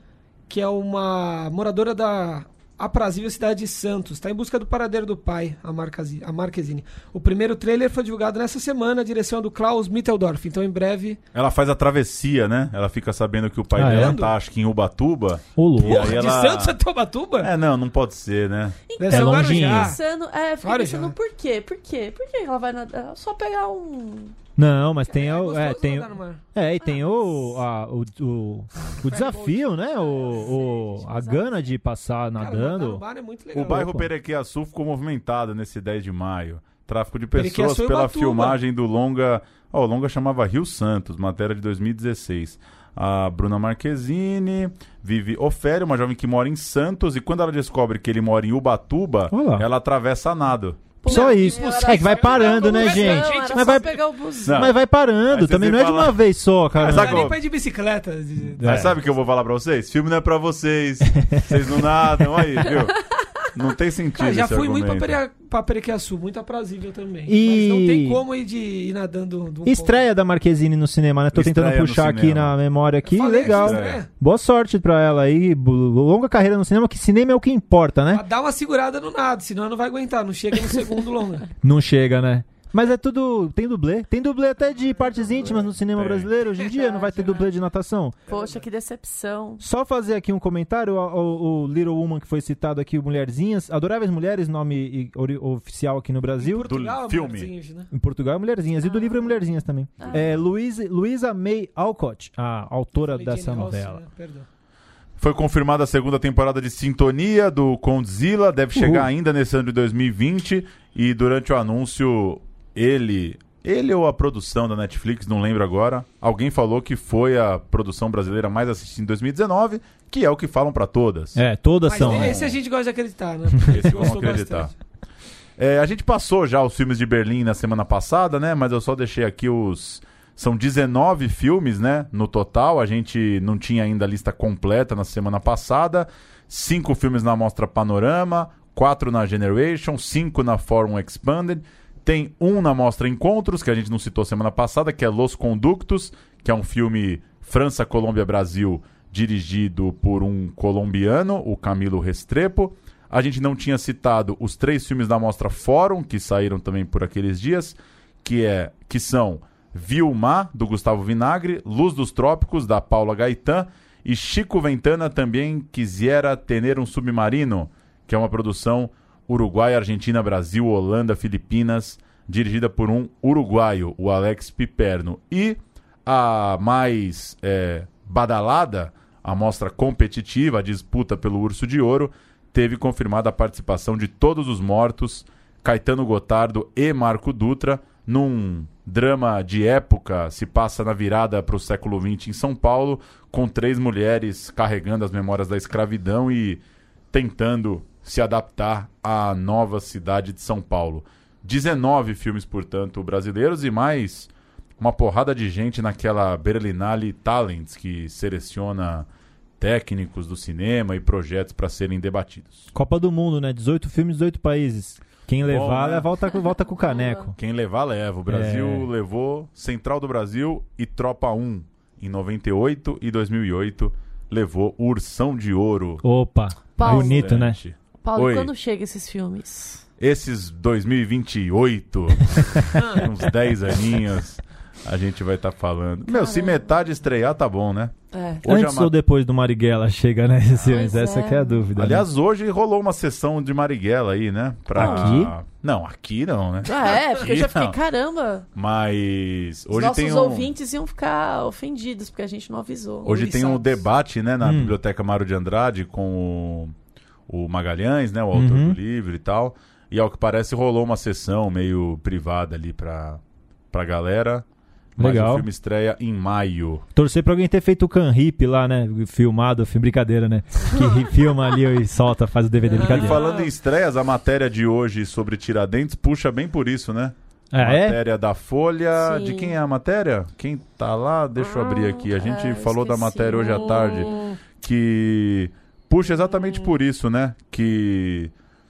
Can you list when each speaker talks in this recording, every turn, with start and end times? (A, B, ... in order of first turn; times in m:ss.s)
0:00.5-0:11.2 A
0:11.3-0:16.8 B
0:13.8-0:14.2 C
0:13.8-0:14.3 A
0:15.6-0:16.2 C
0:15.8-0:17.5 A
0:17.4-0:18.8 B
0:18.9-0:24.4 D
0:19.0-0:20.0 A
0:19.1-0:20.0 C
0:20.6-0:21.1 A
0:24.6-0:33.0 C
0:25.1-0:26.5 A
0:26.8-0:27.6 D
0:28.8-0:30.5 A
0:30.0-0:31.5 D
0:32.4-0:33.9 A
0:33.5-0:51.0 B
0:33.6-0:34.1 C
0:37.3-0:38.6 A
0:49.3-0:49.7 C
0:51.0-0:54.7 D
0:51.1-0:53.9 C
0:51.1-0:54.0 A
0:54.4-0:56.2 B
0:54.5-0:57.3 C
0:56.8-0:57.4 B
0:56.8-0:58.9 A
0:58.6-0:58.9 C
0:58.6-1:03.0 B
1:03.5-1:05.2 B
1:04.2-1:10.1 A
1:07.3-1:08.2 C
1:09.6-1:18.2 C
1:11.3-1:12.5 B
1:13.0-1:14.1 A
1:13.5-1:14.0 B
1:18.1-1:21.5 A
1:21.6-1:28.2 C
1:24.9-1:25.7 A
1:25.5-1:26.3 B
1:26.6-1:27.5 A
1:28.3-1:28.7 A
1:28.3-1:29.6 D
1:29.6-1:36.7 C
1:36.4-1:37.9 A
1:36.6-1:37.5 B
1:37.9-1:44.0 C
1:38.8-1:40.4 D
1:43.0-1:44.5 A
1:45.2-2:01.4 B
1:48.8-1:49.1 C
2:01.4-2:02.4 C
2:01.9-2:04.7 A
2:02.0-2:02.6 B
2:03.7-2:04.7 B
2:05.6-3:29.1 B
3:29.6-3:32.7 B
3:32.7-3:37.4 C
3:35.4-3:36.1 B
3:36.8-3:37.3 D
3:37.4-3:46.0 B
3:38.3-3:38.9 C
3:46.0-3:47.6 C
3:46.7-3:48.5 B
3:46.8-3:47.3 D
3:48.0-3:49.8 D
3:50.0-3:58.9 B
3:52.8-3:53.0 A
3:56.1-3:56.7 D
3:58.1-3:58.4 D
3:58.5-4:02.0 C
4:00.6-4:01.7 D
4:01.8-4:07.8 B
4:04.8-4:05.3 C
4:04.8-4:05.1 D
4:06.6-4:08.5 D
4:08.6-4:10.5 B
4:09.7-4:13.8 D
4:13.0-4:16.7 B
4:14.4-4:14.8 C
4:17.3-4:23.2 B
4:18.3-4:18.8 C
4:23.7-4:24.4 B
4:25.0-4:26.8 B
4:25.0-4:25.5 C
4:27.0-4:33.2 C
4:32.7-4:33.5 A
4:32.8-4:48.3 B
4:37.5-4:38.0 C
4:39.0-4:39.6 D
4:41.4-4:44.3 D